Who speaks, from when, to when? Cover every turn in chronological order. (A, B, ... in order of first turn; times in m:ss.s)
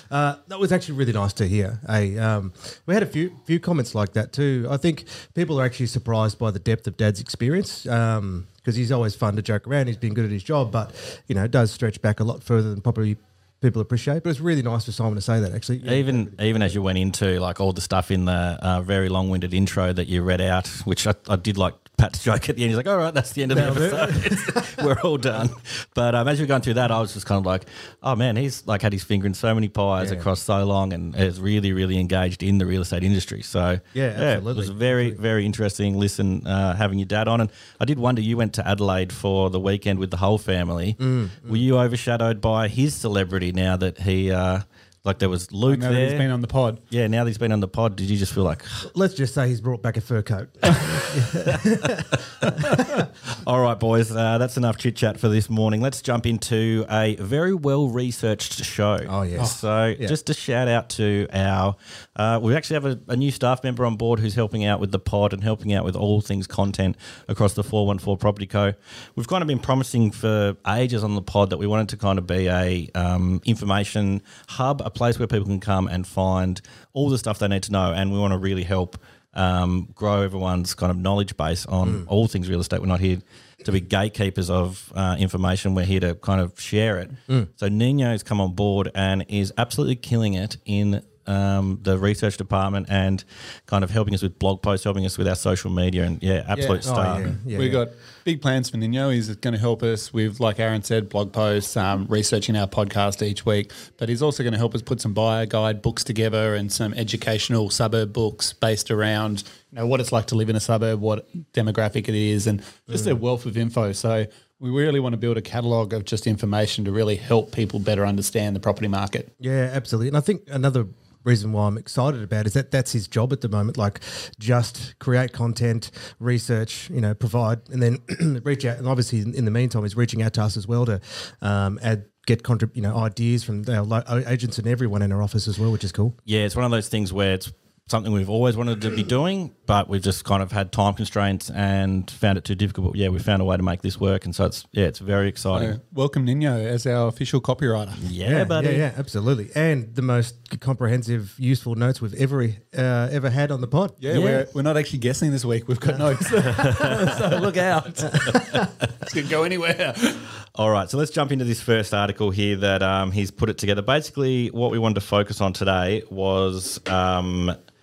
0:00.1-0:16.5 A
0:15.8-0:46.3 B
0:23.5-0:24.7 A
0:30.0-0:30.3 A
0:34.0-0:35.2 A
0:41.0-0:41.6 A
0:45.7-0:46.8 C
0:46.9-0:48.9 B
0:48.8-0:52.2 A
0:51.2-0:52.9 B
0:52.7-0:53.1 A
0:53.4-1:37.4 B
0:59.0-1:00.2 A
1:36.6-1:37.8 A
1:37.5-1:59.3 C
1:52.9-1:53.2 A
1:59.4-2:16.2 A
2:16.3-2:25.8 B
2:25.5-2:28.0 C
2:28.0-2:28.8 B
2:28.2-2:34.0 A
2:34.0-2:40.2 C
2:34.1-2:34.5 B
2:36.4-2:38.7 B
2:40.6-2:47.5 B